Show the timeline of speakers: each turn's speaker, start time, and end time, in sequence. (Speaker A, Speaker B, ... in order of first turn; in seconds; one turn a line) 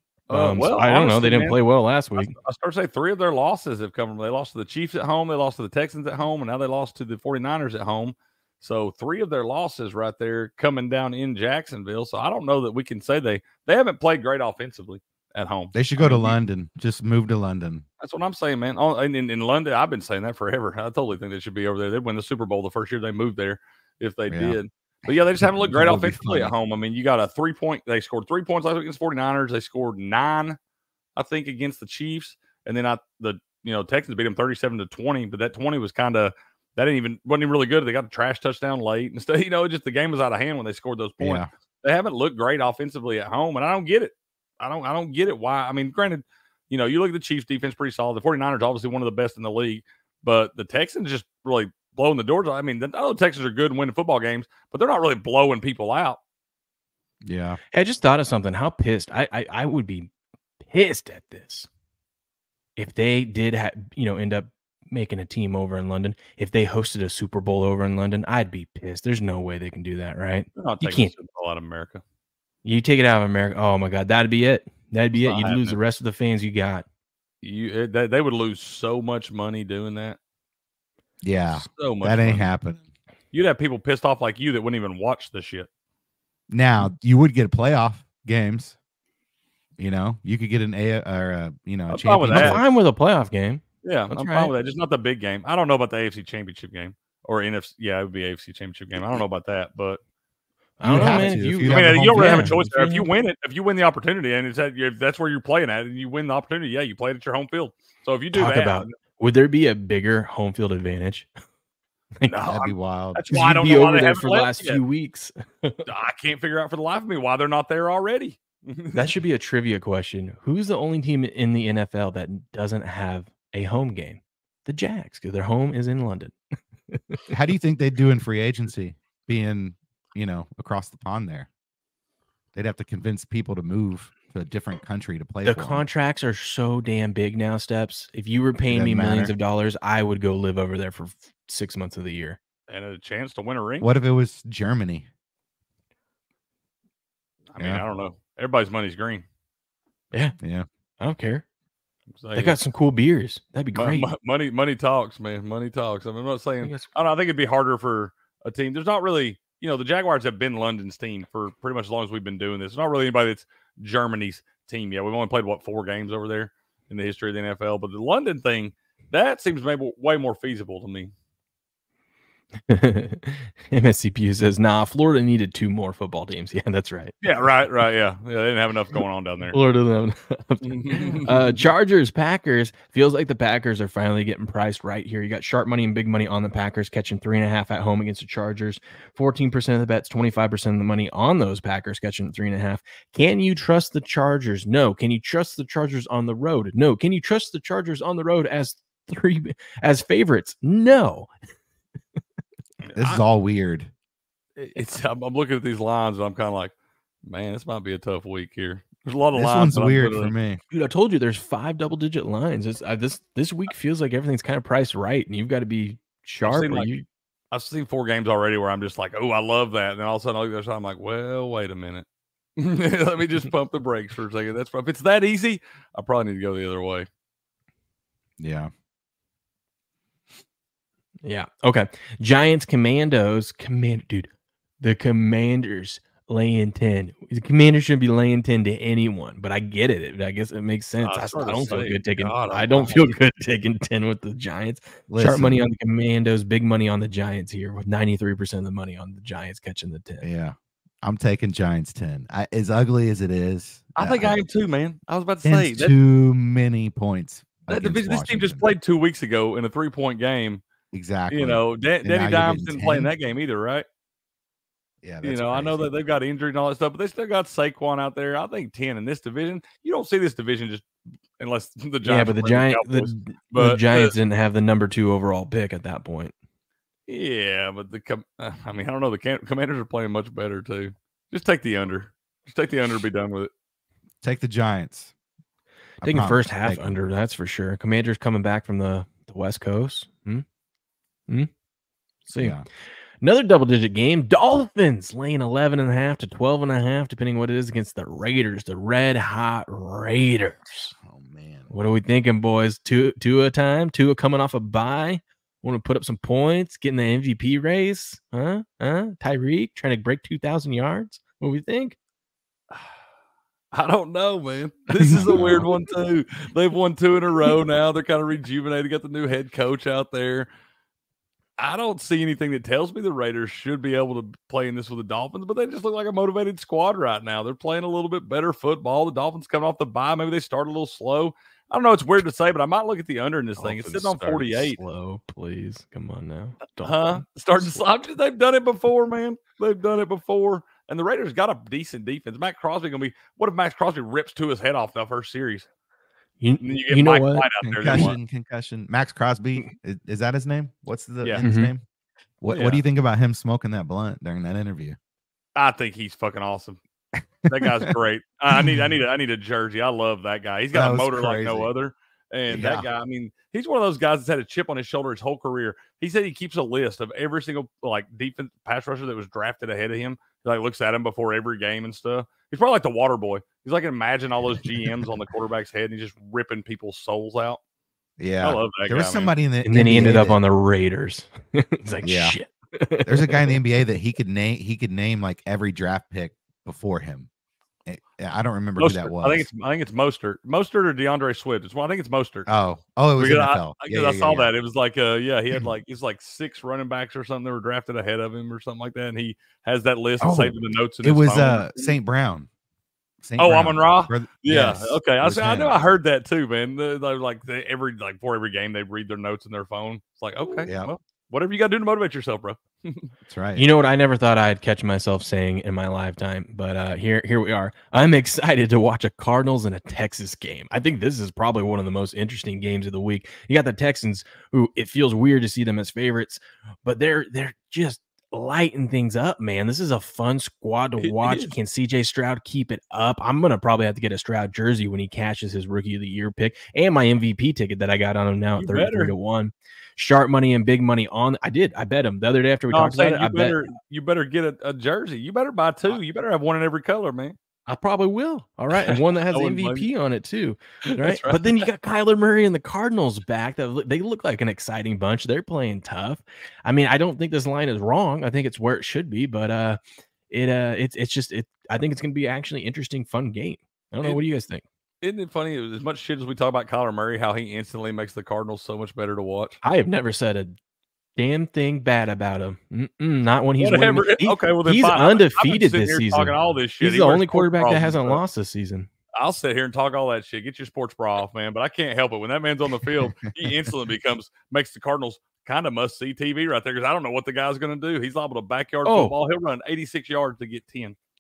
Speaker A: 0.3-1.6
Speaker B: 0.3-2.3
Speaker A: 2.2-16.4
Speaker C: 15.7-17.9
Speaker A: 18.0-30.6
Speaker C: 24.3-24.6
Speaker C: 25.4-26.5
Speaker A: 31.2-56.2
Speaker C: 41.2-41.5
Speaker C: 57.2-57.6
Speaker B: 57.7-60.1
Speaker B: 60.6-61.7
Speaker B: 62.8-71.1
Speaker A: 70.5-72.0
Speaker B: 72.6-76.9
Speaker A: 75.2-75.8
Speaker A: 77.4-80.2
Speaker C: 81.2-82.8
Speaker A: 81.5-82.5
Speaker A: 83.3-85.7
Speaker C: 86.5-88.8
Speaker C: 89.8-92.6
Speaker A: 91.9-92.6
Speaker B: 92.3-94.5
Speaker A: 93.8-100.0
Speaker B: 100.8-103.1
Speaker C: 100.8-102.6
Speaker A: 101.0-108.9
Speaker B: 108.3-111.3
Speaker A: 112.3-114.8
Speaker C: 112.5-113.2
Speaker B: 113.3-115.8
Speaker A: 115.9-119.1
Speaker B: 118.9-126.4
Speaker B: 126.9-127.2
Speaker C: 127.3-131.5
Speaker C: 132.5-135.9
Speaker B: 135.4-142.4
Speaker C: 138.7-139.3
Speaker A: 142.7-143.9
Speaker C: 143.8-145.1
Speaker A: 147.5-149.2
Speaker C: 147.6-147.8
Speaker C: 150.4-150.7
Speaker B: 151.0-151.4
Speaker A: 152.2-152.6
Speaker B: 152.3-154.1
Speaker A: 153.8-171.1
Speaker B: 156.6-156.9
Speaker B: 172.7-177.2
Speaker A: 177.2-179.6
Speaker B: 179.5-201.3
Speaker A: 180.6-181.7
Speaker A: 202.8-203.2
Speaker C: 203.0-203.9
Speaker A: 204.6-206.7
Speaker A: 207.3-210.3
Speaker C: 209.3-210.6
Speaker B: 210.7-217.1
Speaker A: 216.4-216.9
Speaker A: 217.5-222.1
Speaker A: 222.6-227.1
Speaker C: 228.4-228.7
Speaker B: 231.2-250.3
Speaker A: 241.0-243.2
Speaker C: 245.1-245.6
Speaker C: 250.2-254.4
Speaker A: 254.0-255.9
Speaker C: 255.4-258.7
Speaker A: 257.7-260.6
Speaker C: 260.9-263.1
Speaker A: 261.3-263.9
Speaker C: 265.0-265.9
Speaker A: 265.2-274.1
Speaker B: 272.0-276.3
Speaker A: 277.1-283.5
Speaker C: 284.2-285.1
Speaker C: 286.0-287.0
Speaker B: 286.0-290.4
Speaker B: 292.2-292.6
Speaker C: 292.4-292.6
Speaker B: 293.2-300.9
Speaker C: 301.0-301.7
Speaker B: 301.7-312.0
Speaker A: 313.7-320.5
Speaker B: 315.2-315.5
Speaker C: 315.3-315.7
Speaker A: 321.6-334.8
Speaker B: 333.6-337.8
Speaker A: 336.8-345.7
Speaker B: 346.4-348.1
Speaker A: 346.6-348.2
Speaker C: 347.6-351.8
Speaker B: 351.4-351.7
Speaker C: 352.4-355.0
Speaker A: 352.5-352.8
Speaker A: 355.6-356.8
Speaker A: 357.5-377.6
Speaker C: 360.7-361.7
Speaker C: 362.5-362.9
Speaker C: 378.2-380.4
Speaker A: 378.4-379.3
Speaker B: 379.6-383.6
Speaker C: 382.0-382.4
Speaker C: 383.1-387.3
Speaker C: 387.9-389.5
Speaker A: 388.8-392.5
Speaker C: 392.5-394.5
Speaker A: 393.2-401.9
Speaker C: 400.2-402.5
Speaker C: 403.2-405.9
Speaker A: 403.4-413.1
Speaker C: 410.7-410.9
Speaker C: 413.3-413.7
Speaker B: 413.6-443.6
Speaker A: 431.0-431.5
Speaker A: 438.6-439.2
Speaker A: 442.7-447.4
Speaker B: 447.7-459.8
Speaker A: 448.7-449.9
Speaker A: 450.9-451.6
Speaker B: 460.3-464.6
Speaker A: 465.0-469.6
Speaker B: 469.6-470.6
Speaker B: 471.2-478.9
Speaker A: 473.6-478.2
Speaker A: 479.2-491.0
Speaker B: 488.9-489.2